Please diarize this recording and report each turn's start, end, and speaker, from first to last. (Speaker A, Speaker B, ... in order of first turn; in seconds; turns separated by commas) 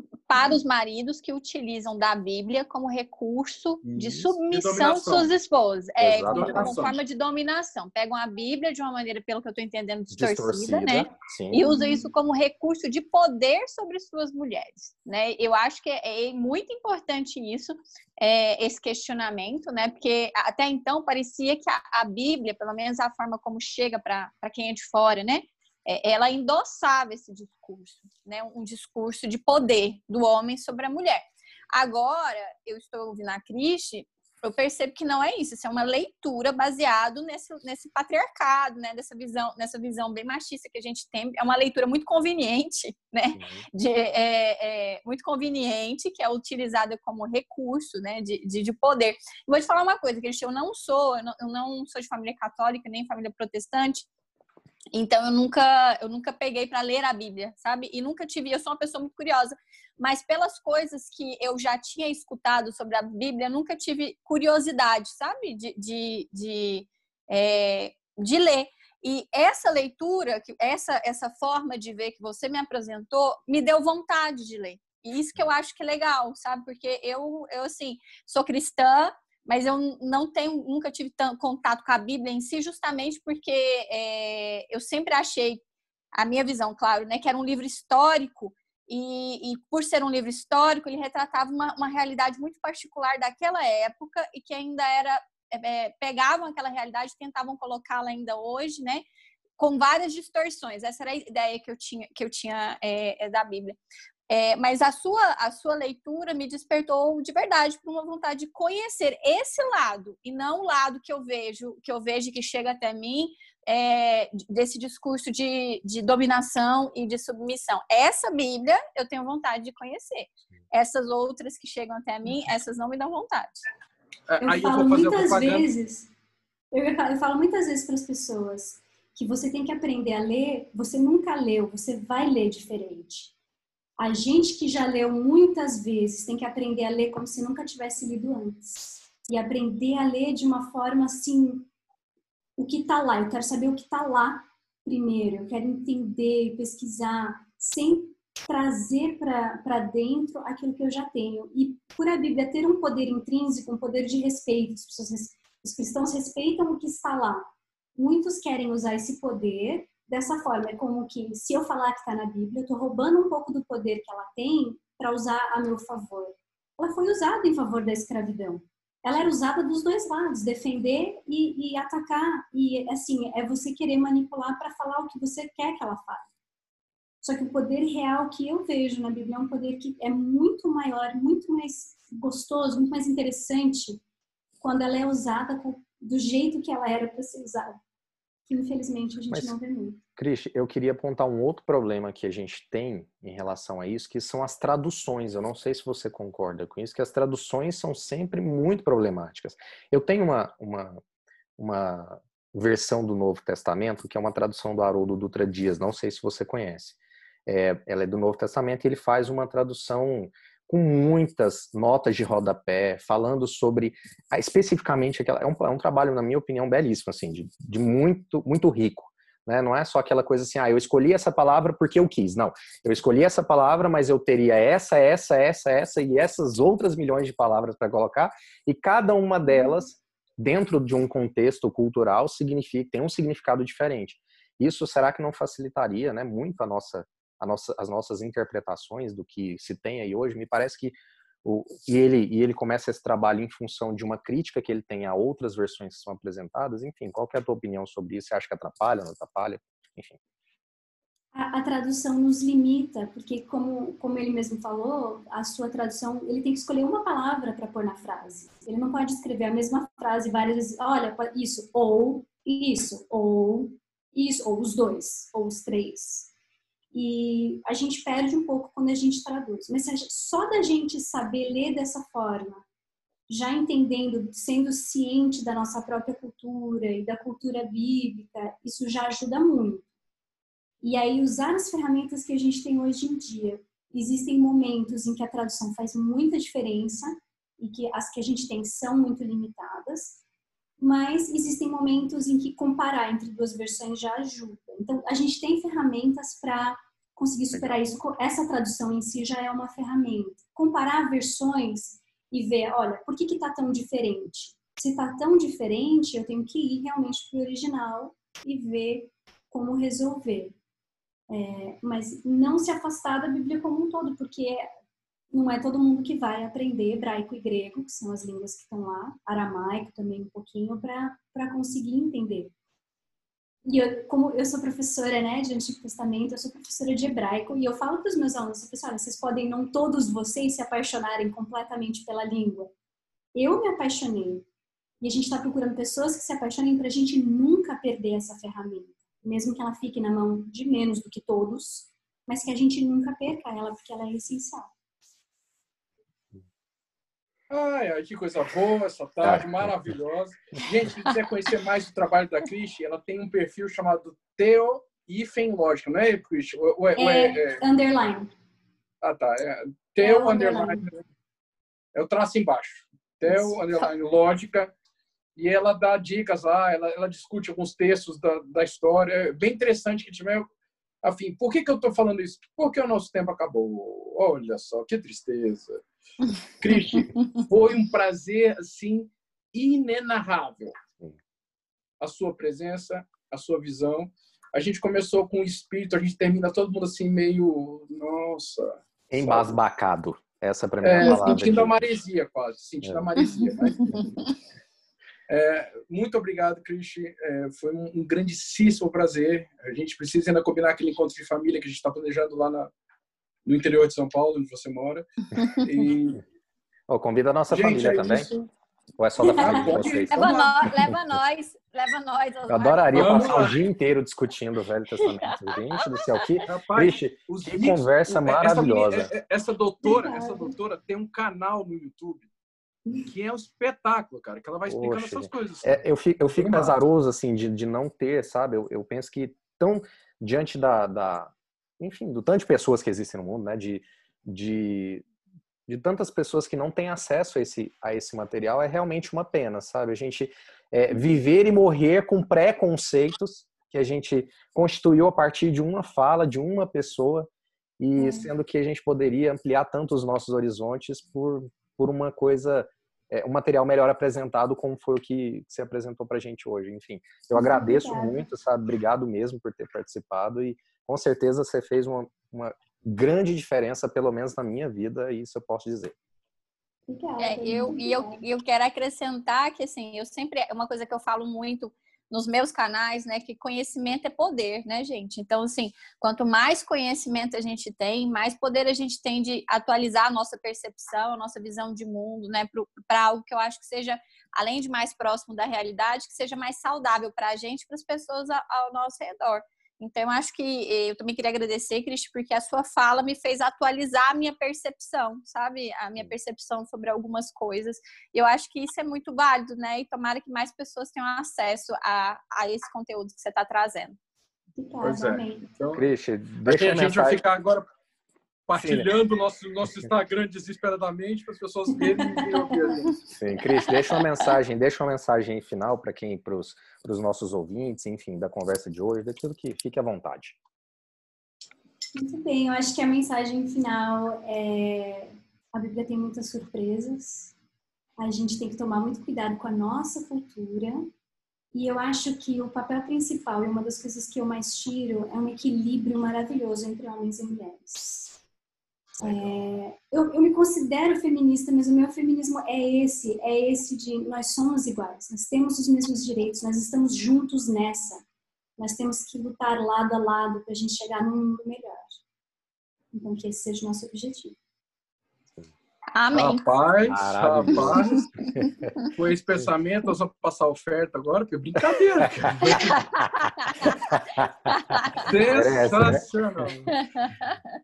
Speaker A: 0.3-54.1, Speaker B: 3.9-4.3, Speaker C: 4.5-5.3, Speaker B: 6.0-6.9, Speaker C: 6.2-7.0, Speaker B: 10.1-11.7, Speaker D: 11.7-12.0, Speaker B: 43.4-43.7, Speaker A: 54.9-85.6, Speaker A: 86.1-99.0, Speaker A: 99.6-103.8, Speaker A: 104.3-123.7, Speaker C: 124.3-125.7, Speaker D: 124.4-126.1, Speaker D: 126.7-133.3, Speaker D: 134.0-141.7, Speaker D: 142.6-176.3, Speaker D: 177.2-184.0, Speaker D: 184.6-187.8, Speaker D: 188.5-190.0, Speaker B: 190.2-201.0, Speaker B: 201.6-250.2, Speaker D: 251.3-266.3, Speaker D: 266.9-272.6, Speaker D: 273.3-279.9, Speaker D: 280.8-290.2, Speaker D: 290.8-310.6, Speaker B: 297.5-297.9, Speaker D: 311.3-314.6, Speaker D: 315.3-322.5, Speaker D: 323.7-332.7, Speaker D: 333.3-334.4, Speaker D: 335.0-344.7, Speaker C: 347.5-357.6, Speaker B: 349.2-349.9, Speaker D: 356.9-358.3, Speaker C: 359.0-361.0, Speaker D: 360.0-360.8, Speaker C: 361.9-364.7, Speaker C: 365.4-370.4, Speaker C: 371.0-375.8, Speaker C: 376.5-380.8, Speaker C: 382.0-389.6, Speaker B: 389.1-392.0, Speaker C: 390.8-394.2, Speaker A: 391.0-391.4, Speaker B: 392.8-393.1, Speaker A: 393.4-394.0, Speaker C: 395.3-402.7, Speaker C: 403.4-406.2, Speaker B: 406.9-408.3, Speaker C: 407.5-408.5, Speaker B: 409.0-411.0, Speaker C: 409.3-410.7, Speaker A: 410.1-413.5, Speaker B: 412.5-419.1, Speaker C: 412.9-413.6, Speaker A: 415.1-416.4, Speaker C: 416.4-422.3, Speaker D: 419.8-420.6, Speaker C: 423.0-425.8, Speaker B: 424.7-435.1, Speaker C: 426.4-426.8, Speaker B: 435.7-447.3, Speaker B: 447.8-465.9, Speaker D: 448.0-448.3, Speaker D: 457.3-458.3, Speaker D: 466.9-468.2, Speaker A: 467.2-504.0, Speaker D: 504.6-505.5, Speaker C: 504.8-505.9, Speaker B: 505.7-507.2, Speaker C: 506.4-507.6, Speaker C: 508.5-513.0, Speaker B: 508.6-508.9, Speaker D: 511.8-512.8, Speaker B: 513.1-520.4, Speaker D: 522.0-527.3, Speaker D: 528.0-530.9, Speaker D: 531.5-538.2, Speaker D: 539.0-548.0, Speaker B: 539.0-539.4, Speaker D: 548.6-552.0, Speaker D: 552.9-554.4, Speaker A: 556.0-556.4, Speaker C: 556.1-558.1, Speaker B: 556.9-558.7, Speaker C: 558.9-562.9, Speaker B: 562.0-563.1, Speaker A: 562.8-563.9, Speaker B: 563.7-564.5, Speaker A: 564.5-565.2, Speaker C: 565.0-566.7, Speaker B: 565.2-566.5, Speaker A: 566.8-567.4